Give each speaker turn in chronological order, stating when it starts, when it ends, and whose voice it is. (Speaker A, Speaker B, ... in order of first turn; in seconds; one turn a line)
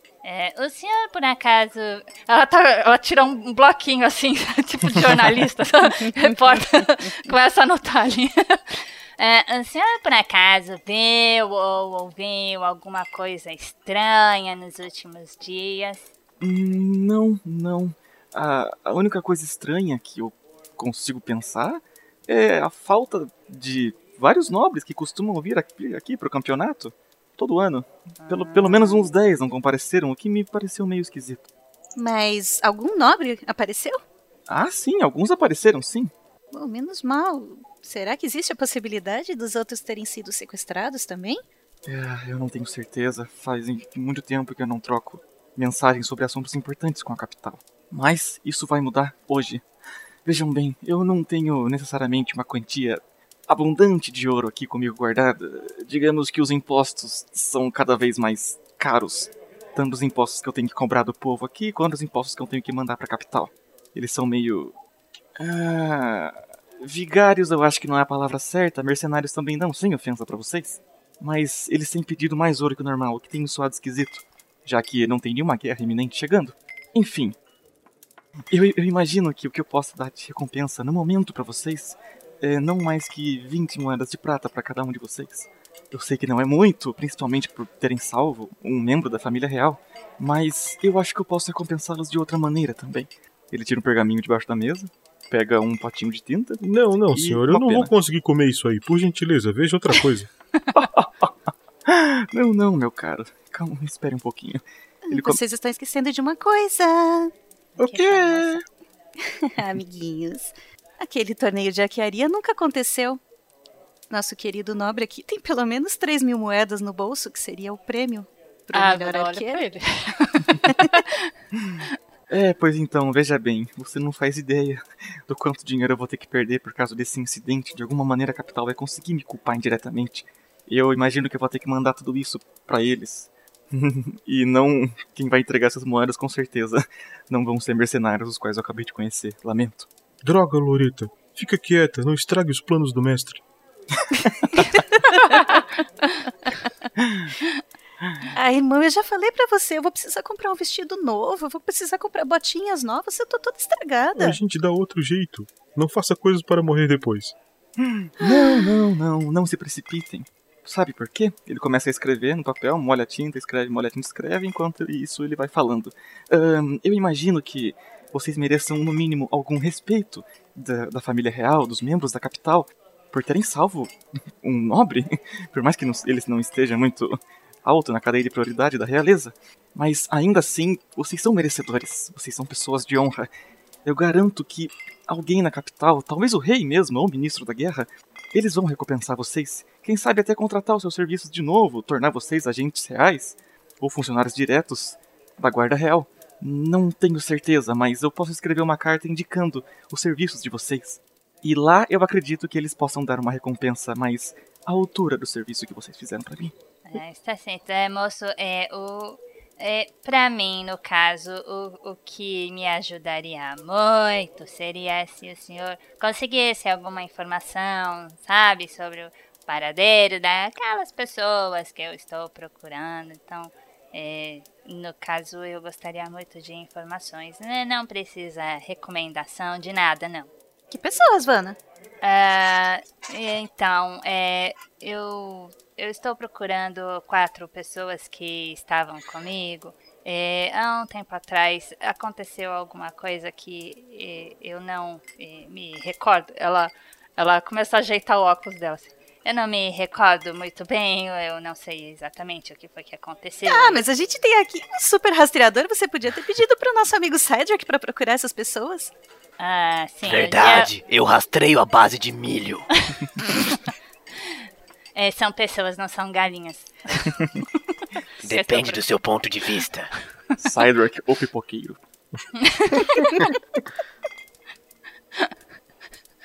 Speaker A: 0.2-16.1
Speaker B: 16.4-31.5
Speaker A: 28.2-29.1
Speaker C: 32.0-34.0
Speaker B: 34.5-36.1
Speaker C: 36.5-41.4
Speaker B: 41.9-49.6
Speaker B: 50.2-64.7
Speaker B: 65.4-77.4
Speaker B: 78.5-96.6
Speaker D: 96.6-100.3
Speaker B: 97.1-97.9
Speaker B: 100.7-101.3
Speaker B: 101.9-105.4
Speaker C: 105.1-108.6
Speaker B: 107.8-108.6
Speaker C: 109.2-113.2
Speaker C: 114.1-119.6
Speaker A: 118.7-121.3
Speaker B: 122.3-139.9
Speaker D: 140.2-143.4
Speaker C: 145.1-145.6
Speaker C: 148.3-154.4
Speaker D: 154.2-157.3
Speaker B: 157.8-183.3
Speaker C: 158.2-158.5
Speaker B: 183.8-206.5
Speaker A: 206.9-230.3
Speaker C: 230.7-231.6
Speaker A: 232.0-253.8
Speaker C: 253.5-258.9
Speaker A: 259.4-260.7
Speaker E: 260.0-262.7
Speaker A: 262.9-263.7
Speaker A: 265.0-267.2
Speaker A: 268.2-268.9
Speaker E: 268.2-269.9
Speaker B: 270.4-271.8
Speaker A: 272.4-273.3